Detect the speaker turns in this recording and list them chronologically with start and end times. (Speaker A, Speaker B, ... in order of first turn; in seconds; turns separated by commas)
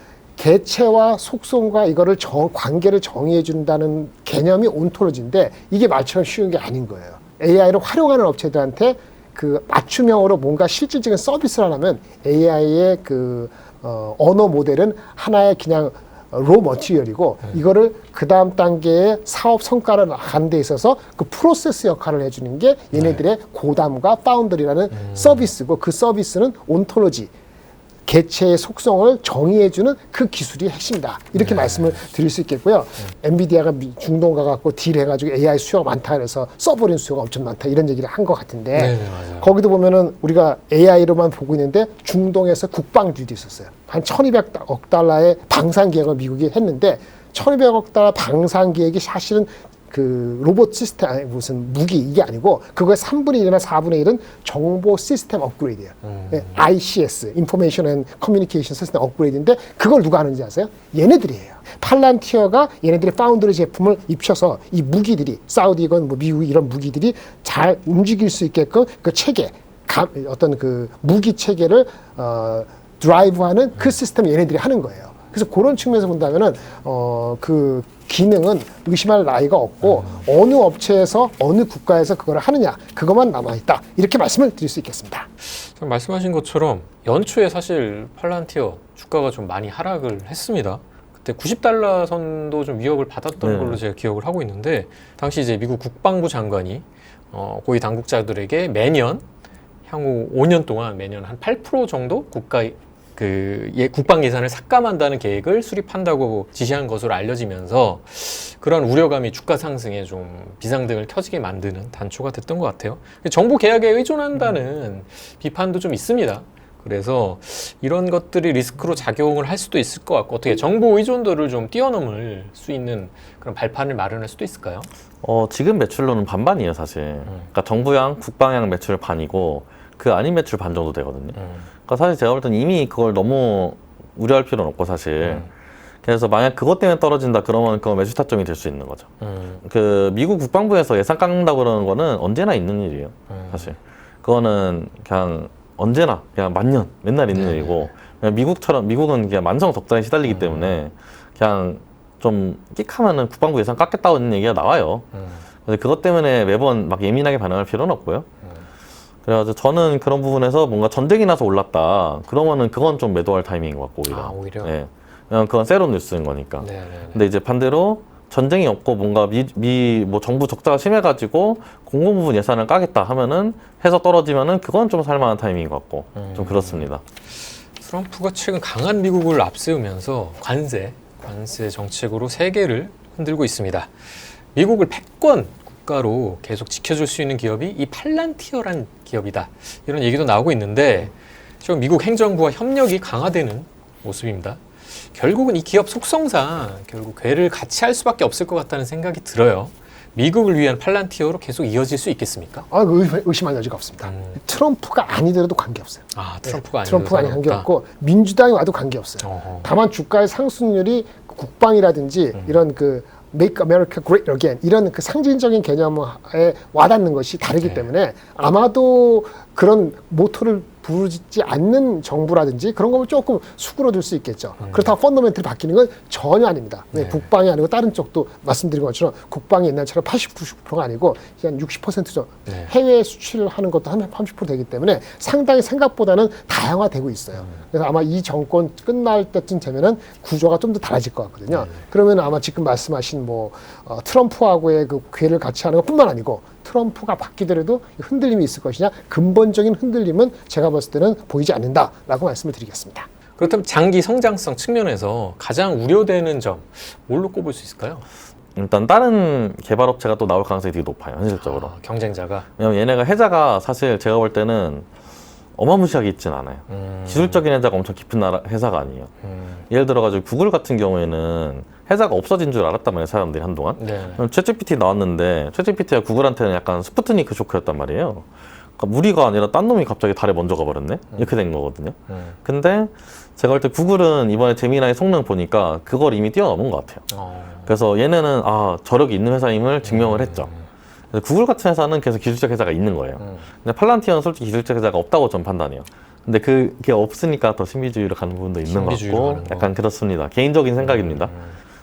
Speaker A: 0.4-27.3, Speaker B: 22.9-23.2, Speaker B: 24.9-25.5, Speaker A: 28.1-85.3, Speaker B: 31.3-32.0, Speaker B: 38.7-39.5, Speaker B: 56.0-56.6, Speaker B: 79.8-80.2, Speaker B: 85.4-99.2, Speaker C: 93.4-93.8, Speaker B: 99.9-124.9, Speaker C: 125.2-131.3, Speaker B: 131.3-131.7, Speaker C: 131.9-135.5, Speaker B: 135.2-135.5, Speaker C: 136.0-139.1, Speaker B: 139.2-139.6, Speaker C: 139.6-155.1, Speaker B: 143.3-143.7, Speaker B: 147.3-147.9, Speaker B: 150.2-150.7, Speaker B: 155.1-155.4, Speaker C: 155.6-158.2, Speaker C: 159.2-177.0, Speaker B: 164.1-164.7, Speaker B: 166.6-167.2, Speaker B: 176.1-176.9, Speaker B: 177.8-202.7, Speaker A: 202.7-253.1, Speaker B: 204.0-204.4, Speaker B: 206.1-207.7, Speaker B: 209.2-209.7, Speaker B: 217.6-217.8, Speaker B: 224.6-224.9, Speaker B: 226.9-227.3, Speaker B: 232.4-232.7, Speaker B: 241.5-241.8, Speaker B: 253.4-258.0, Speaker C: 258.6-261.7, Speaker B: 261.4-262.4, Speaker C: 262.6-264.9, Speaker C: 265.6-269.1, Speaker B: 266.7-267.4, Speaker B: 269.2-269.6, Speaker C: 269.7-278.2, Speaker B: 273.8-274.2, Speaker C: 278.8-287.0, Speaker B: 282.1-282.4, Speaker B: 287.1-287.7, Speaker C: 287.6-290.5, Speaker B: 289.8-290.7, Speaker C: 291.1-301.3, Speaker B: 293.2-293.5, Speaker B: 298.7-299.7, Speaker B: 300.8-301.6